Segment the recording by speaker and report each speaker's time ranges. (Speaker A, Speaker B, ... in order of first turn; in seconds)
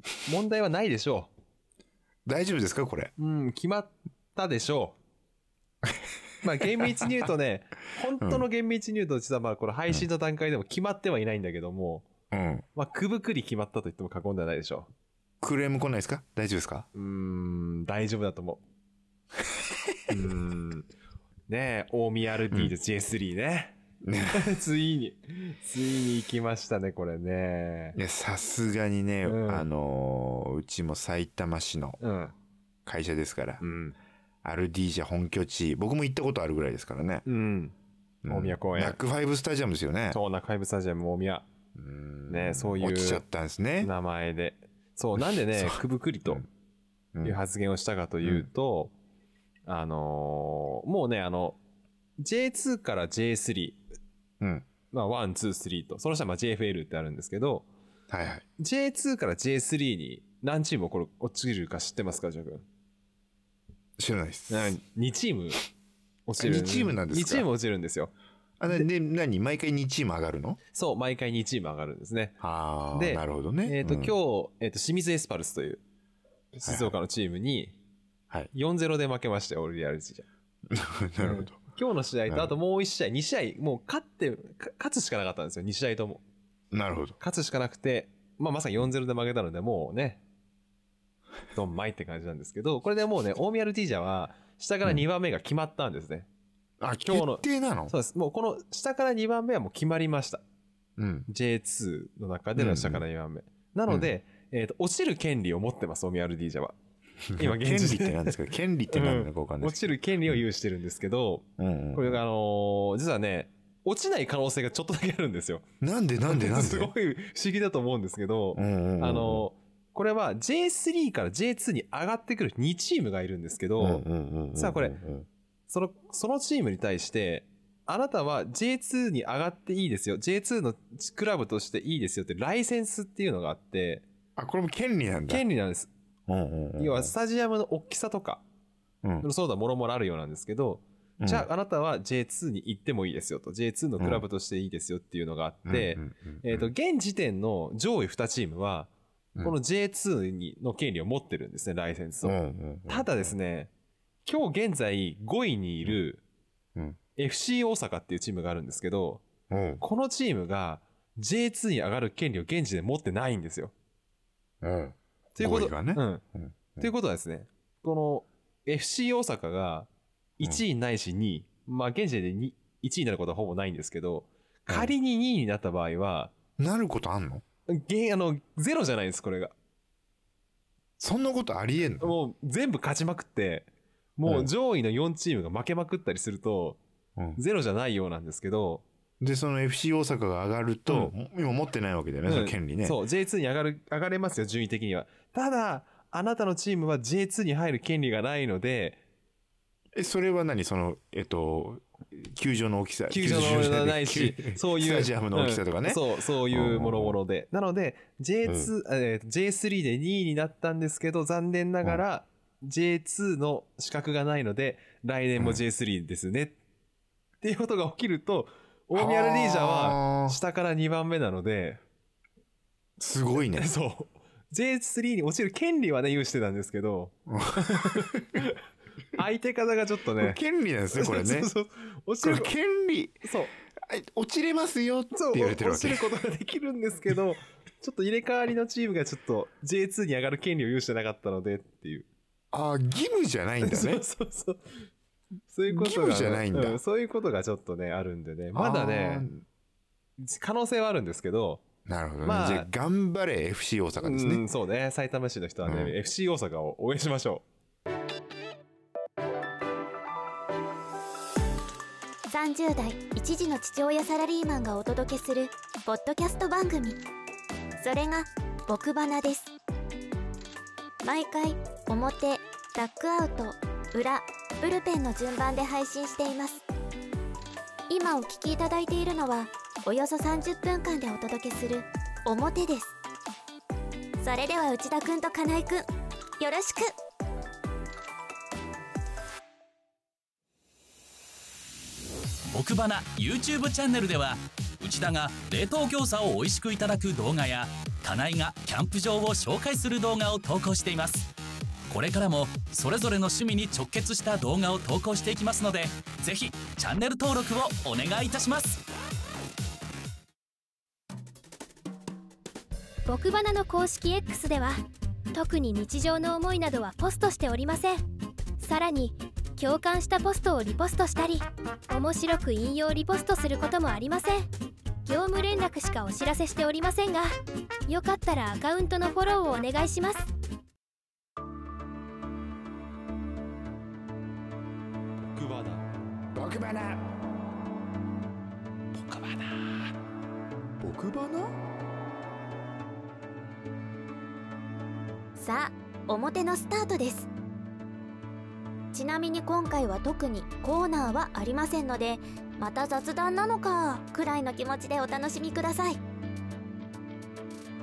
Speaker A: 0.2-1.3, 3.2-5.0, 6.4-12.1, 12.7-14.9, 16.9-18.6, 20.1-20.9, 21.5-28.0, 29.2-29.6, 32.0-32.3, 33.6-33.9, 37.2-37.7, 38.3-39.0, 40.1-41.5, 42.3-43.2, 43.8-46.4, 47.2-48.9, 49.6-51.6, 52.2-53.8, 54.9-57.6, 58.6-62.6, 64.5-65.6, 66.3-68.1, 70.7-72.4, 72.9-75.8, 76.5-77.8, 78.5-80.2, 81.2-86.2, 87.2-90.2, 91.5-96.3, 97.0-100.4, 101.3-106.7, 107.3-108.4, 108.9-115.6, 116.2-125.0, 125.7-134.0, 135.3-135.9, 136.8-138.4, 139.2-148.9, 149.4-153.7, 154.2-156.2, 157.2-159.2, 159.8-163.7, 165.3-166.2, 166.8-176.3, 177.7-179.5, 182.0-186.8, 187.4-188.8, 190.9-191.1, 192.3-199.0, 203.1-216.6, 217.4-221.8, 223.5-228.6, 229.1-230.4, 230.9-232.5, 233.2-233.5, 235.1-242.1, 243.6-244.8, 245.5-249.3, 250.2-251.6, 252.2-252.7, 254.0-257.4, 335.3-335.8, 338.9-339.7
Speaker B: 2.2-3.1, 6.8-7.1, 8.2-8.4, 12.3-12.6, 15.4-16.9, 19.5-20.1, 24.0-24.5, 27.9-32.0, 32.9-33.6, 34.4-37.2, 38.2-40.2, 41.8-43.9, 45.5-46.5, 48.2-48.5, 54.4-54.6, 58.1-58.4, 64.0-64.7, 66.4-67.5, 68.6-70.6, 72.4-74.2, 76.6-76.9, 80.7-81.6, 82.3-82.5, 86.7-87.2, 96.8-97.9, 101.0-101.3, 102.6-103.0, 107.3-110.4, 111.6-112.2, 115.8-116.9, 118.5-119.5, 123.8-125.2, 134.4-135.4, 136.3-137.1, 139.0-139.3, 141.2-141.5, 145.7-146.7, 152.2-153.3, 159.5-159.8, 164.6-166.9, 176.6-177.4, 181.0-182.1, 189.2-193.0, 199.9-207.2, 208.4-208.7, 218.9-220.4, 223.0-223.7, 227.3-228.4, 230.2-231.5, 232.2-233.2, 233.8-236.1, 242.5-244.0, 245.7-246.8, 248.5-249.4, 251.8-254.4, 255.6-255.9, 336.3-337.1, 340.8-341.6
Speaker C: 262.3-267.0, 267.8-269.5, 271.0-276.6, 277.9-282.9, 284.2-285.9, 286.4-286.9, 345.4-347.3, 348.9-356.0
Speaker D: 292.5-301.3, 301.9-308.8
Speaker E: 313.1-314.8, 315.3-318.0, 318.6-324.5, 325.1-327.3, 327.9-330.3